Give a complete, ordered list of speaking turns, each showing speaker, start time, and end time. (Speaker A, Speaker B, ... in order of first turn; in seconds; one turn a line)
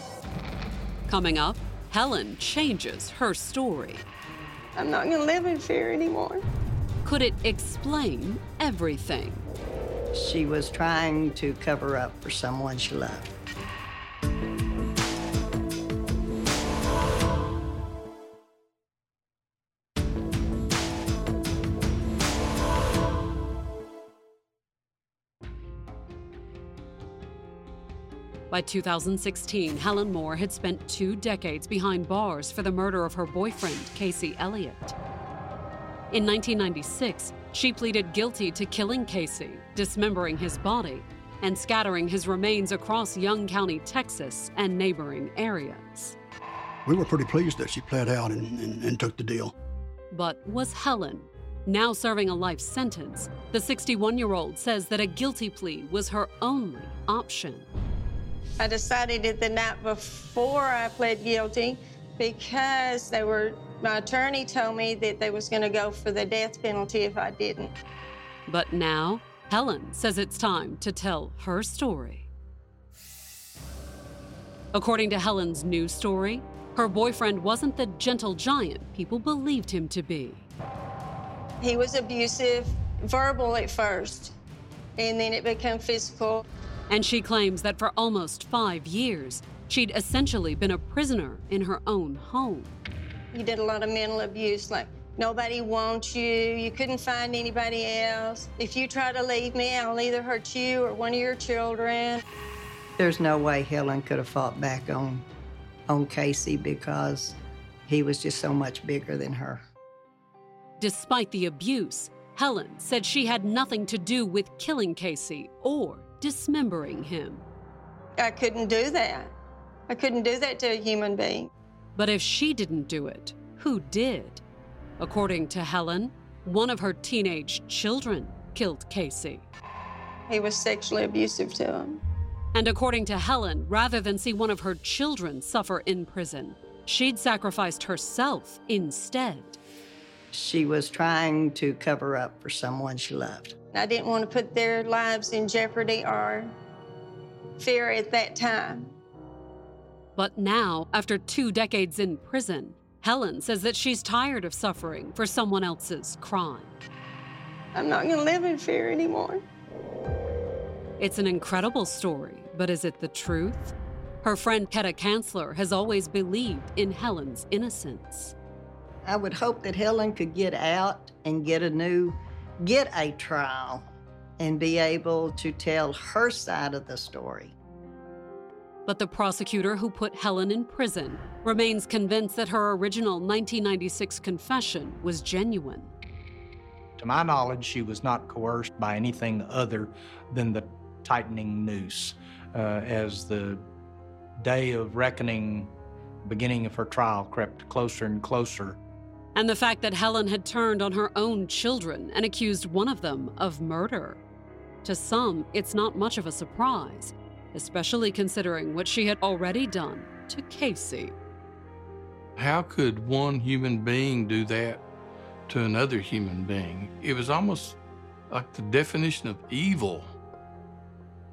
Speaker A: 1.1-4.0
Speaker B: 4.8-6.4
Speaker A: 7.0-9.5
Speaker C: 10.1-13.3
Speaker A: 28.5-34.9
Speaker A: 36.1-46.1
Speaker D: 46.8-49.5
Speaker A: 50.1-57.7
Speaker B: 58.6-67.7
Speaker A: 68.5-72.3
Speaker A: 74.7-80.5
Speaker B: 81.6-84.3
Speaker B: 85.0-86.4
Speaker A: 86.9-92.8
Speaker B: 93.3-102.2
Speaker C: 103.0-105.2
Speaker C: 105.9-109.6
Speaker A: 110.8-117.4
Speaker B: 118.2-119.3
Speaker B: 119.9-121.5
Speaker A: 122.0-124.4
Speaker A: 125.0-129.5
Speaker B: 130.3-132.0
Speaker A: 132.5-139.6
Speaker C: 140.3-143.5
Speaker B: 143.7-146.6
Speaker B: 147.6-148.9
Speaker A: 150.2-156.8
Speaker B: 157.7-159.4
Speaker A: 161.0-168.3
Speaker C: 169.0-173.8
Speaker C: 174.4-177.5
Speaker A: 178.8-185.9
Speaker E: 187.0-193.6
Speaker E: 194.4-195.7
Speaker E: 196.2-198.8
Speaker A: 199.3-204.2
Speaker A: 204.8-211.1
Speaker F: 212.4-214.8
Speaker F: 215.5-217.8
Speaker F: 218.3-220.1